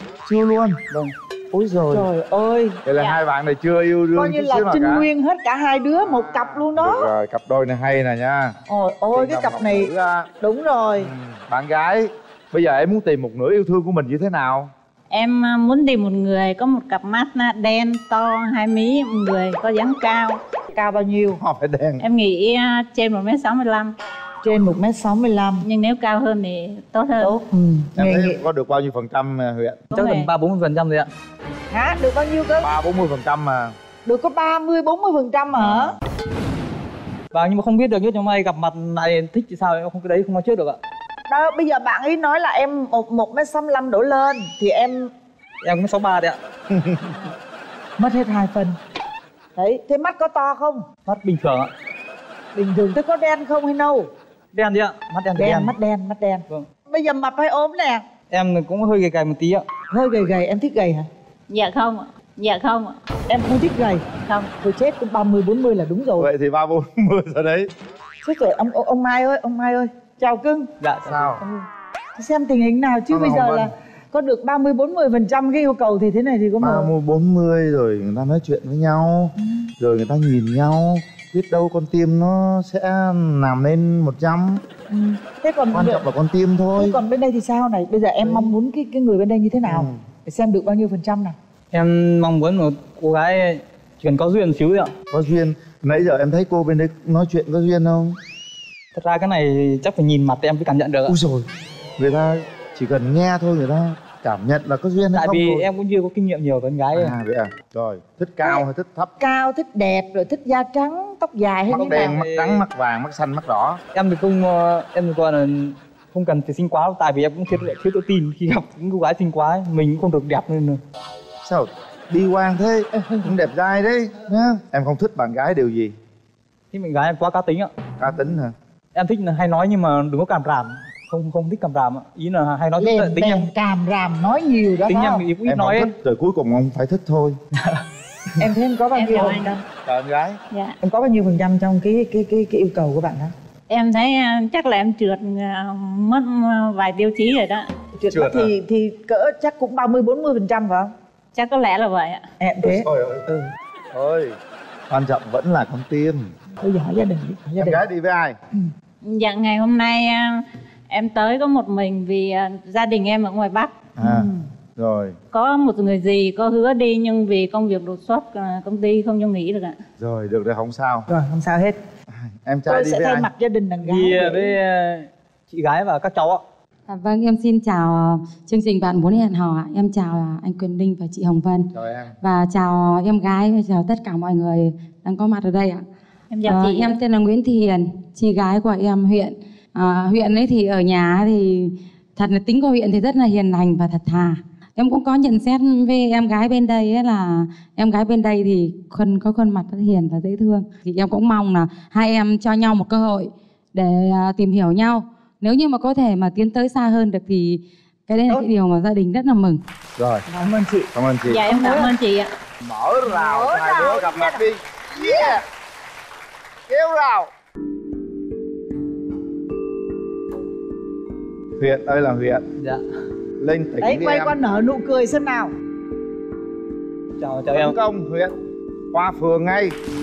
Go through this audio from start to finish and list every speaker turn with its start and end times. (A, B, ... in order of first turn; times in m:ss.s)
0:00.2-0:02.1 A
0:01.9-0:02.8 B
0:02.8-0:05.1 A
0:04.2-0:07.1 B
0:06.0-0:08.6 A
0:08.7-0:11.1 B
0:09.1-0:10.3 A
0:11.0-0:14.7 A
0:15.1-0:20.4 C
0:20.7-0:21.4 B
0:21.4-0:22.0 A
0:22.0-0:23.9 C
0:24.4-0:25.6 B
0:25.6-0:27.4 C
0:27.2-0:28.4 B
0:28.0-0:29.8 A
0:29.9-0:30.3 C
0:29.9-0:31.1 D
0:31.7-0:32.7 B
0:32.6-0:33.7 A
0:34.0-0:36.0 B
0:35.6-0:35.9 A
0:37.3-0:40.8 D
0:41.3-0:45.1 B
0:45.6-0:46.4 D
0:46.7-0:47.2 A
0:48.0-0:48.8 B
0:49.6-0:50.8 B
0:51.0-0:51.7 D
0:52.5-0:54.1 B
0:54.5-0:55.7 D
0:55.4-0:58.0 B
0:58.3-0:59.6 D
0:59.9-1:01.1 B
1:01.5-1:03.0 C
1:03.3-1:06.3 B
1:06.2-1:07.7 A
1:08.2-1:10.7 B
1:10.8-1:11.4 D
1:11.0-1:11.4 A
1:12.2-1:16.9 B
1:13.1-1:13.7 A
1:16.6-1:24.6 A
1:24.9-1:26.0 B
1:25.7-1:27.0 A
1:26.8-1:31.4 B
1:29.6-1:30.0 A
1:31.7-1:34.9 D
1:35.1-1:38.2 A
1:39.0-1:41.1 D
1:41.1-1:41.5 A
1:42.0-1:45.6 A
1:45.1-1:47.1 D
1:46.9-1:49.1 A
1:49.2-1:52.2 B
1:51.7-1:53.8 A
1:52.0-1:52.6 D
1:53.9-2:00.8 D
2:01.4-2:05.9 A
2:06.7-2:07.7 D
2:08.0-2:08.5 A
2:08.9-2:13.4 D
2:12.8-2:15.3 B
2:14.9-2:15.9 D
2:15.4-2:17.4 A
2:18.4-2:19.6 B
2:18.9-2:19.6 C
2:19.8-2:20.4 A
2:20.8-2:23.3 B
2:23.7-2:27.7 C
2:28.0-2:30.9 B
2:28.1-2:28.5 A
2:31.3-2:32.2 C
2:32.4-2:33.4 B
2:32.6-2:33.3 A
2:33.9-2:34.4 A
2:34.9-2:36.3 A
2:36.6-2:37.8 B
2:37.6-2:38.3 A
2:39.0-2:43.7 C
2:44.0-2:45.2 A
2:44.0-2:44.4 B
2:45.3-2:49.8 C
2:50.0-2:51.1 A
2:51.1-2:51.8 B
2:52.1-2:53.3 A
2:52.7-2:54.6 B
2:53.9-2:56.4 D
2:56.9-3:05.8 E
3:01.7-3:02.1 A
3:06.3-3:06.9 C
3:06.4-3:29.6 E
3:30.0-3:30.2 A
3:30.3-3:30.9 B
3:30.9-3:31.4 A
3:31.2-3:32.3 C
3:31.5-3:31.9 B
3:32.6-3:35.4 A
3:33.0-3:34.4 B
3:36.7-3:37.3 A
3:41.6-3:42.4 A
3:42.6-3:42.8 D
3:43.4-3:44.4 A
3:43.8-3:45.5 B
3:47.2-3:47.7 D
3:47.5-3:48.3 A
3:48.9-3:49.8 A